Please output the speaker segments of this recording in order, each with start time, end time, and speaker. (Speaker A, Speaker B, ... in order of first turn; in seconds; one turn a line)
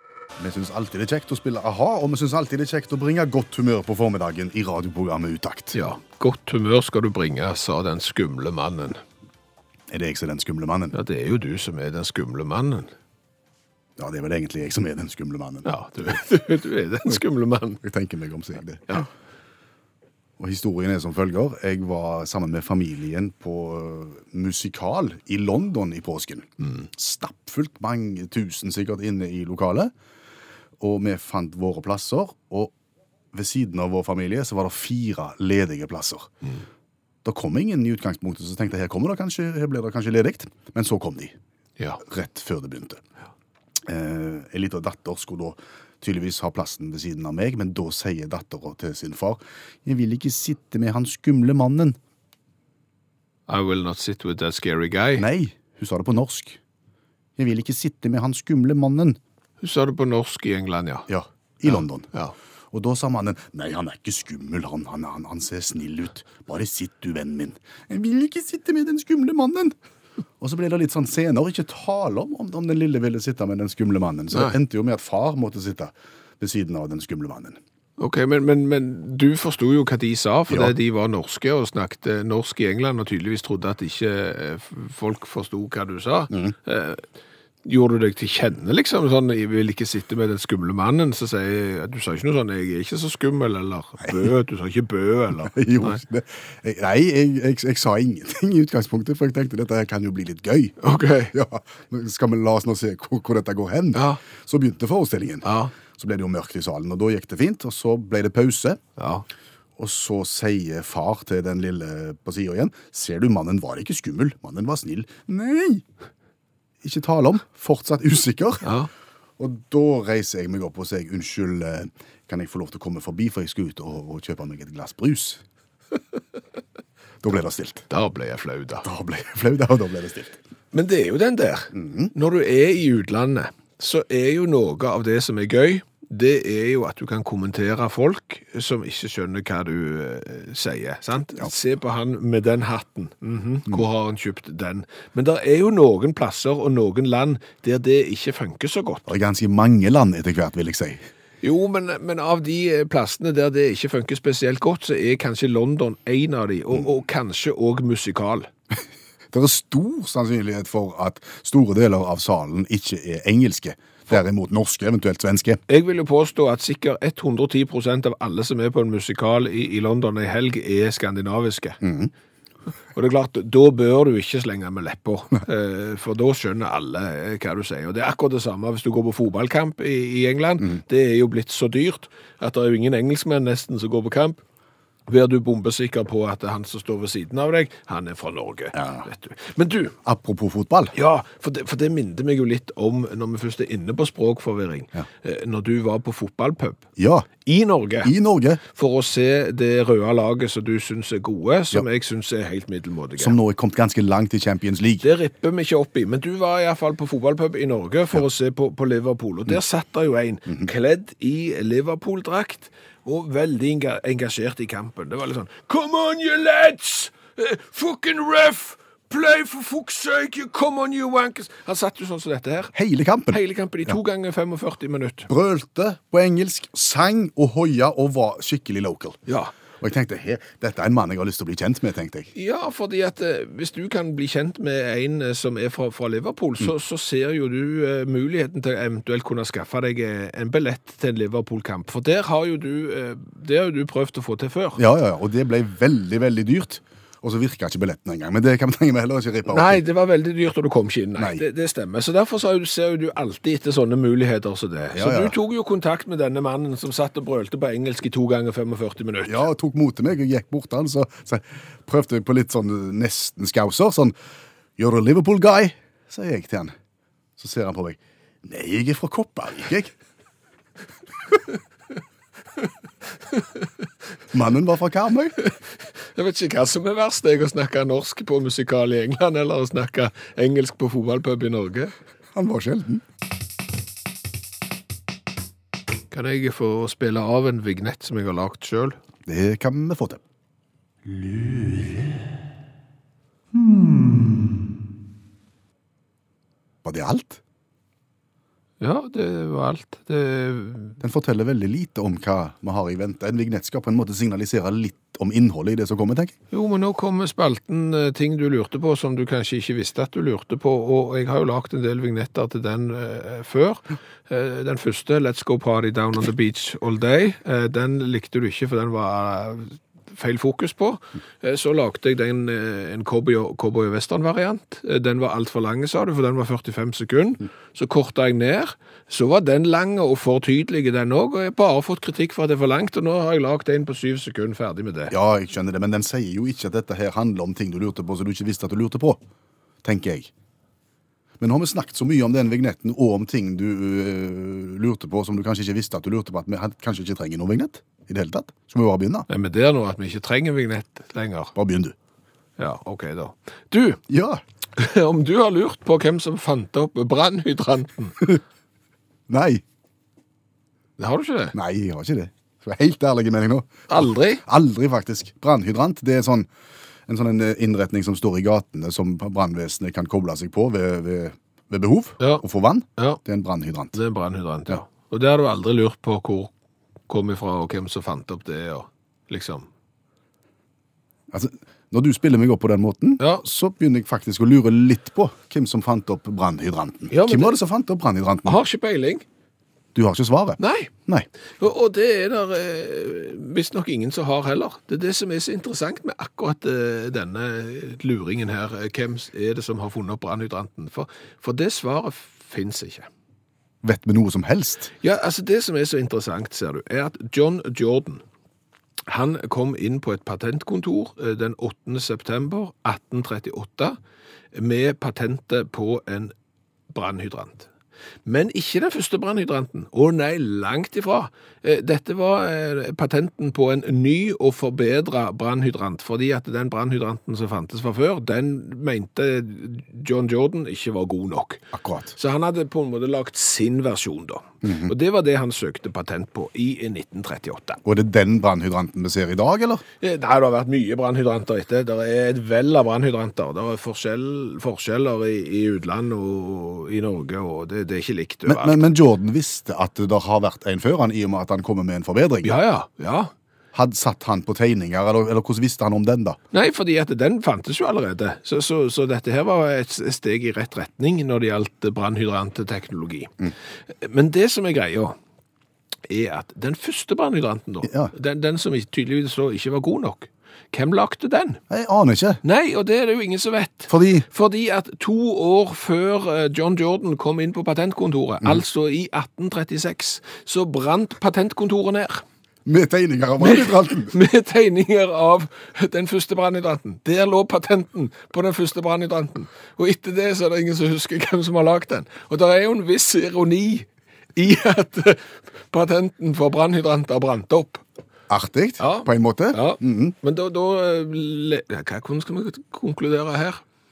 Speaker A: 0.4-5.8
Speaker B: 5.7-9.0
Speaker A: 9.9-10.9
Speaker B: 10.9-12.9
Speaker A: 14.0-15.7
Speaker B: 15.6-17.8
Speaker A: 17.8-19.1
Speaker A: 20.4-29.9
Speaker A: 30.8-32.7
Speaker A: 33.3-36.3
Speaker A: 37.2-41.4
Speaker A: 42.0-43.0
Speaker A: 43.9-52.0
Speaker B: 53.5-55.2
Speaker A: 55.2-56.6
Speaker A: 57.4-59.2
Speaker B: 59.6-61.1
Speaker A: 61.1-62.1
Speaker B: 61.7-62.3
Speaker A: 62.7-69.7
Speaker A: 70.4-77.6
Speaker B: 78.0-87.0
Speaker B: 87.6-96.0
Speaker A: 95.4-100.7
Speaker B: 100.8-101.3
Speaker A: 101.3-108.8
Speaker B: 103.9-104.2
Speaker B: 105.4-105.7
Speaker B: 109.0-109.2
Speaker A: 109.8-115.8
Speaker A: 116.8-118.7
Speaker B: 118.6-118.9
Speaker A: 119.4-125.4
Speaker A: 127.2-127.8
Speaker B: 127.9-128.8
Speaker A: 128.8-130.4
Speaker B: 130.7-149.1
Speaker A: 131.7-132.1
Speaker A: 149.1-151.0
Speaker B: 151.4-158.5
Speaker A: 159.3-165.6
Speaker B: 165.7-171.8
Speaker A: 171.8-172.1
Speaker B: 172.9-184.4
Speaker B: 185.1-190.0
Speaker A: 188.7-189.1
Speaker A: 190.0-190.9
Speaker B: 190.9-196.8
Speaker A: 197.0-197.3
Speaker B: 197.4-198.1
Speaker A: 198.0-198.6
Speaker B: 198.7-203.4
Speaker A: 203.2-205.0
Speaker B: 205.0-222.7
Speaker A: 222.7-223.9
Speaker B: 223.3-225.3
Speaker A: 225.3-229.2
Speaker B: 229.3-229.5
Speaker A: 229.8-232.3
Speaker B: 232.3-244.8
Speaker A: 244.8-249.8
Speaker B: 249.5-259.4
Speaker A: 251.2-251.4
Speaker A: 254.9-255.4
Speaker A: 259.2-264.1
Speaker A: 264.8-266.7
Speaker A: 267.4-269.9
Speaker B: 273.3-273.7
Speaker A: 274.3-275.4
Speaker B: 275.4-281.9
Speaker A: 282.3-283.0
Speaker B: 286.1-289.0
Speaker A: 289.2-290.2
Speaker B: 291.1-292.0
Speaker A: 293.5-294.5
Speaker A: 296.8-297.4
Speaker B: 298.8-301.0
Speaker A: 301.0-306.3
Speaker B: 306.5-335.1
Speaker A: 335.1-339.2
Speaker A: 339.8-340.3
Speaker A: 341.4-349.3
Speaker B: 349.3-351.5
Speaker A: 351.5-351.9
Speaker B: 352.6-354.0
Speaker A: 354.1-354.4
Speaker B: 354.8-358.3
Speaker A: 359.3-359.6
Speaker B: 361.0-361.5
Speaker A: 361.5-366.5
Speaker B: 363.9-364.4
Speaker A: 367.1-374.0
Speaker B: 373.9-376.5
Speaker B: 377.1-379.7
Speaker A: 381.3-388.6
Speaker B: 387.1-387.6
Speaker B: 388.4-389.2
Speaker A: 389.9-391.3
Speaker B: 390.6-390.9
Speaker B: 391.6-403.1
Speaker A: 403.8-404.9
Speaker B: 405.0-408.2
Speaker B: 409.1-414.0
Speaker B: 414.5-416.3
Speaker B: 416.9-417.7
Speaker B: 418.2-437.8
Speaker A: 431.7-432.1
Speaker A: 434.6-434.9
Speaker A: 437.8-439.8
Speaker B: 440.0-448.9
Speaker A: 448.4-452.6
Speaker B: 452.4-453.3
Speaker A: 453.7-456.4
Speaker B: 456.5-463.4
Speaker B: 463.9-465.1
Speaker B: 466.1-471.6
Speaker A: 467.8-468.1
Speaker A: 471.7-472.4
Speaker B: 472.4-482.2
Speaker A: 473.9-474.2
Speaker A: 482.6-484.1
Speaker B: 483.4-497.8
Speaker A: 498.3-500.1
Speaker B: 498.8-503.6